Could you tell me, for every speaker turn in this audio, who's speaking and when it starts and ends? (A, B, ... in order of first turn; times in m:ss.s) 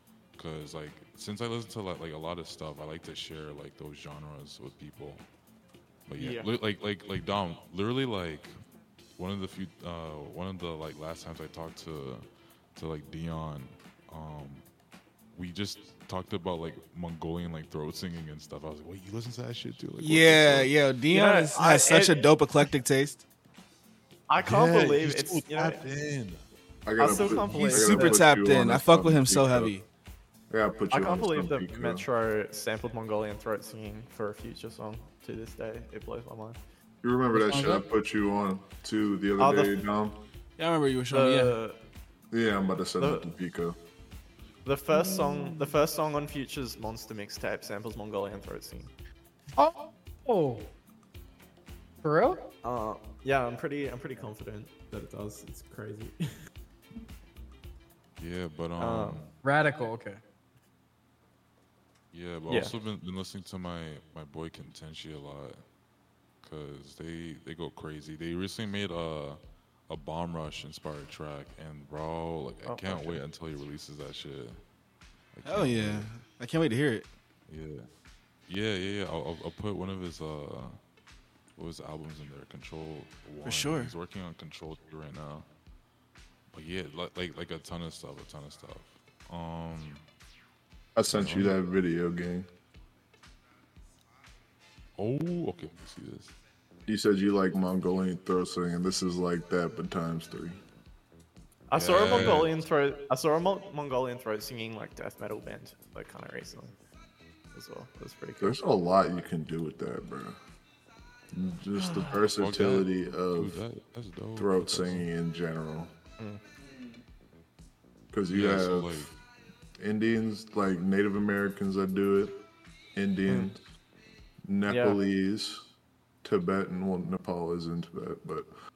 0:00.4-0:05.2 A
0:06.1-0:08.5 A
0:06.2-0:06.5 B
0:09.2-0:14.6 A
0:15.3-0:20.7 A
0:20.0-0:23.2 C
0:21.1-0:22.3 B
0:24.3-0:25.8 B
0:24.4-0:26.4 A
0:26.8-0:29.7 D
0:27.0-0:28.2 B
0:27.6-0:29.8 C
0:30.5-0:32.0 D
0:30.9-0:36.6 B
0:37.0-0:40.2 D
0:37.3-0:37.8 E
0:39.4-0:39.8 B
0:40.6-0:41.6 C
0:41.1-0:41.8 B
0:42.3-0:43.8 D
0:43.0-0:43.2 B
0:44.6-0:48.9 B
0:49.6-0:50.6 E
0:52.0-0:52.4 E
0:52.6-0:56.3 B
0:58.2-0:59.3 A
0:58.8-0:59.2 B
0:59.4-1:00.2 E
1:02.1-1:05.6 A
1:06.4-1:14.6 A
1:12.6-1:13.2 B
1:15.3-1:16.1 A
1:15.4-1:17.0 C
1:17.5-1:17.9 A
1:18.5-1:20.8 A
1:21.6-1:25.5 A
1:23.4-1:23.9 C
1:26.5-1:30.0 A
1:30.9-1:32.5 D
1:31.1-1:31.6 A
1:35.0-1:36.3 A
1:36.9-1:40.6 D
1:41.7-1:46.7 B
1:41.7-1:42.6 A
1:47.5-1:48.6 B
1:48.4-1:50.4 D
1:51.3-1:53.6 D
1:51.9-1:55.1 A
1:54.4-1:55.9 D
1:58.1-1:59.1 D
1:58.3-1:59.1 A
1:59.8-2:02.4 D
2:02.9-2:03.6 D
2:04.4-2:05.7 D
2:04.7-2:05.0 B
2:06.2-2:08.5 D